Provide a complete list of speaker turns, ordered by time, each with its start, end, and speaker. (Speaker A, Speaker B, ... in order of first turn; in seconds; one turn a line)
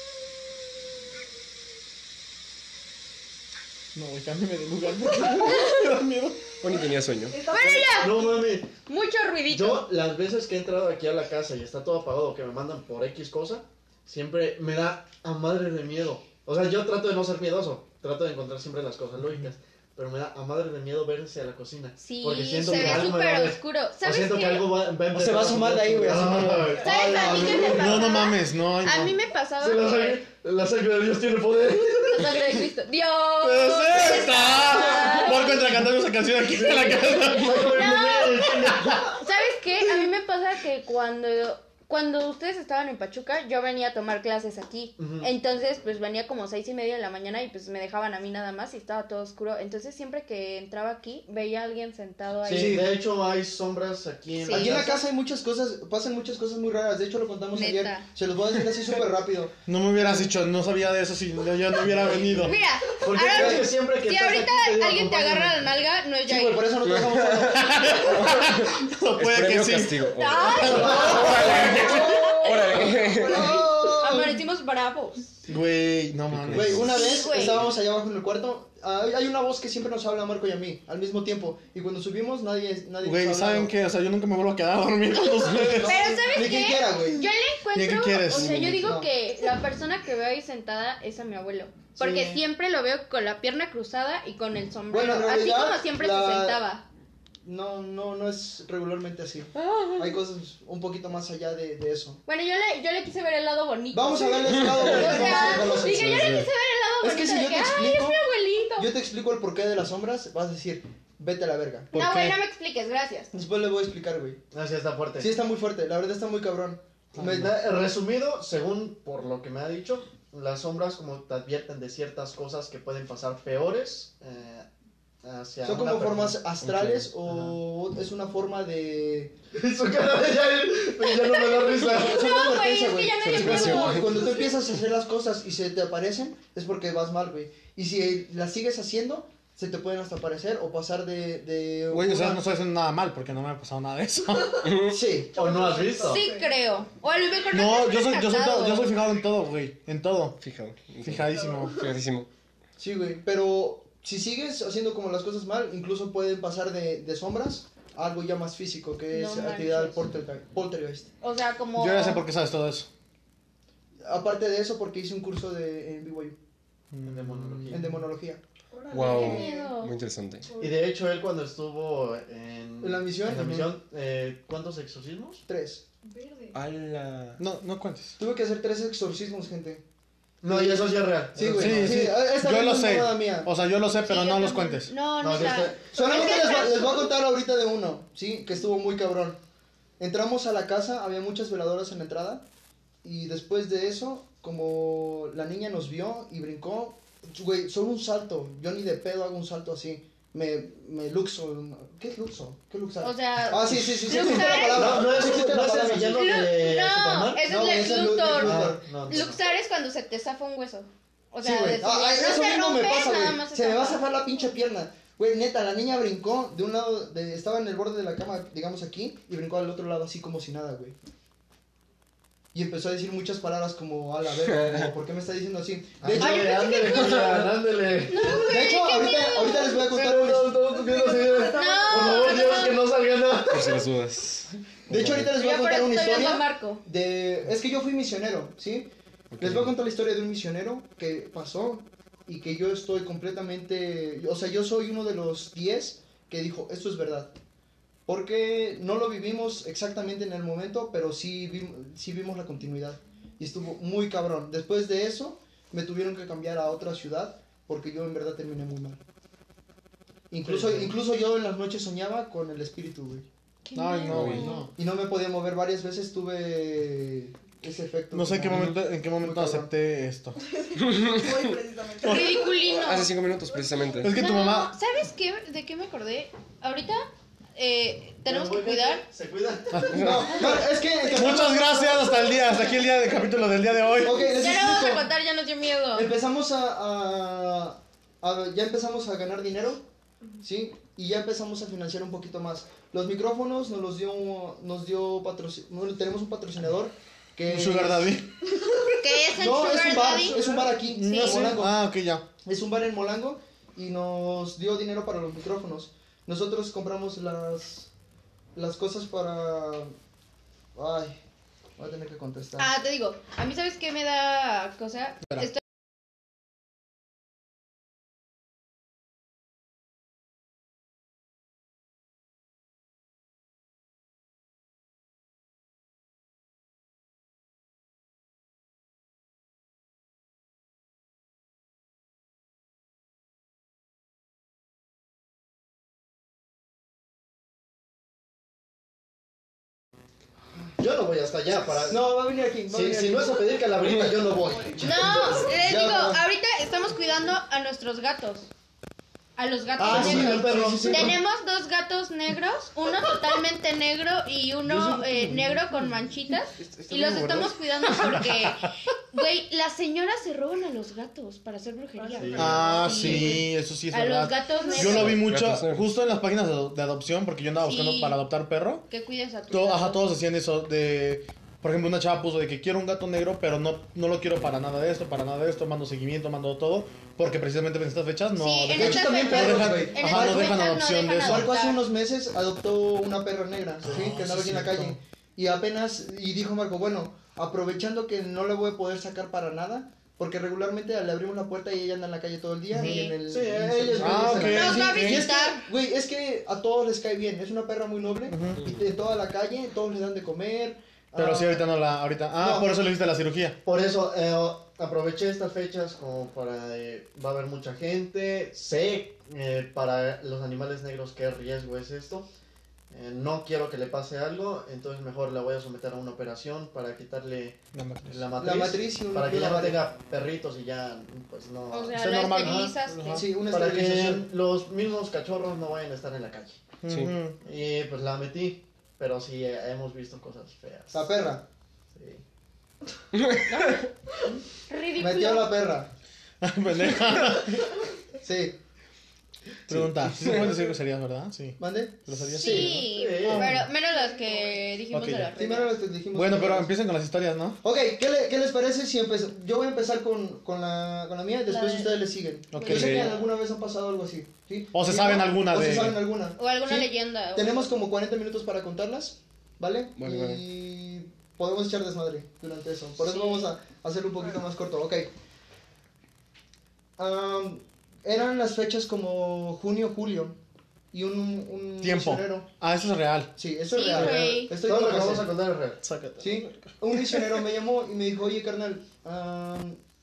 Speaker A: 4.0-6.5
Speaker B: 6.6-7.4
Speaker C: 7.3-8.5
Speaker D: 7.5-9.9
Speaker E: 7.9-8.7
Speaker E: 9.5-28.2
Speaker D: 22.0-24.7
Speaker A: 22.7-23.0
Speaker F: 25.1-27.8
Speaker A: 26.1-26.8
Speaker D: 26.8-30.2
Speaker A: 27.7-29.2
Speaker E: 29.6-32.5
Speaker D: 32.1-35.8
Speaker A: 33.4-37.7
Speaker D: 36.5-52.9
Speaker E: 37.0-39.2
Speaker E: 45.0-45.3
Speaker E: 52.4-55.0
Speaker D: 54.4-55.0
Speaker F: 54.5-59.5
Speaker D: 57.5-58.1
Speaker A: 59.7-62.6
Speaker E: 61.9-65.7
Speaker D: 62.4-66.7
Speaker F: 63.2-63.7
Speaker F: 66.3-68.6
Speaker B: 66.9-67.5
Speaker A: 67.3-71.7
Speaker B: 69.2-73.6
Speaker D: 70.2-75.3
Speaker E: 70.6-71.6
Speaker F: 70.7-74.4
Speaker C: 71.7-73.5
Speaker A: 75.5-76.9
Speaker B: 76.3-76.9
Speaker F: 76.5-83.7
Speaker D: 76.8-77.7
Speaker A: 83.0-86.1
Speaker F: 85.5-87.3
Speaker D: 85.8-96.8
Speaker A: 87.7-88.8
Speaker F: 88.7-89.1
Speaker F: 92.0-92.4
Speaker F: 94.9-96.6
Speaker F: 97.4-102.2
Speaker D: 102.3-108.9
Speaker F: 103.9-106.3
Speaker C: 105.2-105.7
Speaker A: 105.8-106.5
Speaker F: 107.0-108.2
Speaker F: 108.8-111.9
Speaker A: 111.9-112.4
Speaker D: 111.9-113.3
Speaker F: 113.3-114.4
Speaker E: 114.5-115.3
Speaker F: 115.2-117.6
Speaker E: 117.2-124.7
Speaker E: 125.2-126.4
Speaker F: 125.6-129.4
Speaker B: 126.6-127.1
Speaker E: 129.5-132.4
Speaker D: 131.0-134.4
Speaker F: 131.8-142.4
Speaker B: 133.2-134.3
Speaker A: 141.9-144.7
Speaker C: 144.4-144.7
Speaker B: 144.7-145.0
Speaker F: 144.8-145.5
Speaker C: 145.3-146.6
Speaker E: 145.3-146.2
Speaker D: 146.0-148.9
Speaker A: 147.5-150.4
Speaker B: 150.4-152.3
Speaker A: 151.0-151.9
Speaker C: 151.3-151.9
Speaker F: 152.8-161.1
Speaker D: 159.1-160.1
Speaker D: 161.2-162.2
Speaker A: 161.8-162.9
Speaker F: 164.0-166.4
Speaker A: 166.9-168.0
Speaker E: 167.0-167.9
Speaker F: 167.7-168.4
Speaker C: 168.7-169.8
Speaker B: 168.9-170.5
Speaker D: 169.0-169.9
Speaker C: 170.4-170.9
Speaker E: 170.6-175.4
Speaker F: 172.8-173.7
Speaker F: 175.5-175.8
Speaker C: 176.1-176.6
Speaker B: 176.5-177.4
Speaker A: 177.4-178.2
Speaker F: 178.2-179.8
Speaker E: 180.4-182.0
Speaker F: 180.4-183.5
Speaker A: 181.4-184.9
Speaker D: 184.1-187.0
Speaker E: 185.2-185.9
Speaker F: 185.9-189.4
Speaker F: 190.0-192.4
Speaker F: 193.0-206.2
Speaker D: 203.0-205.2
Speaker E: 204.1-207.5
Speaker D: 206.1-214.1
Speaker F: 207.4-208.9
Speaker E: 208.3-209.4
Speaker F: 211.4-221.0
Speaker F: 222.5-226.7
Speaker B: 224.4-224.9
Speaker E: 226.0-228.5
Speaker D: 226.2-227.5
Speaker D: 228.1-229.8
Speaker C: 228.2-228.7
Speaker F: 228.5-230.6
Speaker E: 229.8-233.9
Speaker C: 230.5-232.7
Speaker D: 231.5-232.8
Speaker B: 233.5-235.3
Speaker F: 234.9-247.3
Speaker D: 235.3-236.8
Speaker B: 239.3-239.7
Speaker F: 248.1-259.0
Speaker F: 260.3-263.3
Speaker E: 260.5-260.8
Speaker D: 263.6-264.7
Speaker A: 263.7-264.7
Speaker B: 264.1-264.6
Speaker F: 264.7-269.7
Speaker A: 268.1-270.4
Speaker C: 270.4-272.7
Speaker B: 270.9-271.2
Speaker D: 272.0-273.1
Speaker B: 272.6-274.1
Speaker C: 273.5-274.1
Speaker A: 274.0-274.8
Speaker D: 274.1-279.0
Speaker E: 278.2-280.3
Speaker A: 279.7-280.4
Speaker F: 279.9-282.0
Speaker B: 279.9-280.4
Speaker A: 281.0-284.2
Speaker C: 281.2-282.4
Speaker F: 284.0-285.1
Speaker D: 284.3-286.1
Speaker F: 285.9-289.9
Speaker F: 290.4-298.2
Speaker A: 297.5-298.3
Speaker D: 299.0-300.4
Speaker F: 299.3-301.8
Speaker C: 300.2-300.6
Speaker A: 300.7-302.2
Speaker D: 301.0-301.6
Speaker F: 302.4-307.9
Speaker F: 308.6-309.9
Speaker F: 310.8-311.2
Speaker F: 311.8-312.7
Speaker D: 312.6-315.6
Speaker E: 340.8-342.1
Speaker F: 341.9-343.4
Speaker E: 342.7-345.1
Speaker F: 344.6-346.2
Speaker D: 344.8-348.5
Speaker D: 349.4-365.2
Speaker F: 349.8-351.1
Speaker E: 349.8-351.2
Speaker F: 354.7-355.6
Speaker A: 357.0-358.7
Speaker C: 362.0-363.4
Speaker E: 362.1-363.3
Speaker A: 362.4-368.9
Speaker C: 364.5-365.0
Speaker B: 364.9-365.9
Speaker D: 367.6-368.2
Speaker D: 368.9-370.0
Speaker A: 369.5-381.5
Speaker D: 378.4-381.8
Speaker F: 378.8-401.7
Speaker A: 383.8-385.0
Speaker A: 392.7-393.1
Speaker D: 392.8-393.1
Speaker E: 393.3-394.8
Speaker A: 394.0-395.3
Speaker D: 394.4-395.6
Speaker A: 398.3-398.6
Speaker A: 401.1-403.6
Speaker F: 402.4-402.8
Speaker E: 403.6-412.3
Speaker E: 412.9-422.8
Speaker A: 417.7-418.3
Speaker F: 418.4-419.8
Speaker D: 421.7-423.3
Speaker A: 421.9-423.3
Speaker F: 423.1-424.3
Speaker E: 423.4-426.6
Speaker A: 426.8-427.4
Speaker E: 427.4-431.2
Speaker F: 430.9-431.4
Speaker E: 431.9-432.2
Speaker B: 433.1-433.6
Speaker D: 433.5-433.8
Speaker D: 434.7-435.5
Speaker F: 435.0-435.9
Speaker A: 436.4-437.8
Speaker F: 438.2-438.6
Speaker A: 439.7-443.7
Speaker B: 439.7-440.5
Speaker F: 441.6-442.7
Speaker D: 442.3-445.8
Speaker E: 442.5-443.7
Speaker C: 443.8-444.7
Speaker A: 444.9-445.3
Speaker F: 445.4-446.7
Speaker A: 446.1-447.6
Speaker F: 447.6-465.1
Speaker D: 451.5-452.0
Speaker A: 452.5-453.1
Speaker D: 452.6-453.2
Speaker B: 452.7-453.1
Speaker A: 454.7-456.0
Speaker D: 456.4-457.7
Speaker B: 460.0-460.4
Speaker D: 463.1-463.4
Speaker F: 467.0-470.4
Speaker F: 470.9-472.5
Speaker A: 471.8-473.3
Speaker F: 473.4-475.3
Speaker D: 473.7-474.5
Speaker E: 473.9-475.8
Speaker A: 475.8-477.4
Speaker F: 476.2-479.8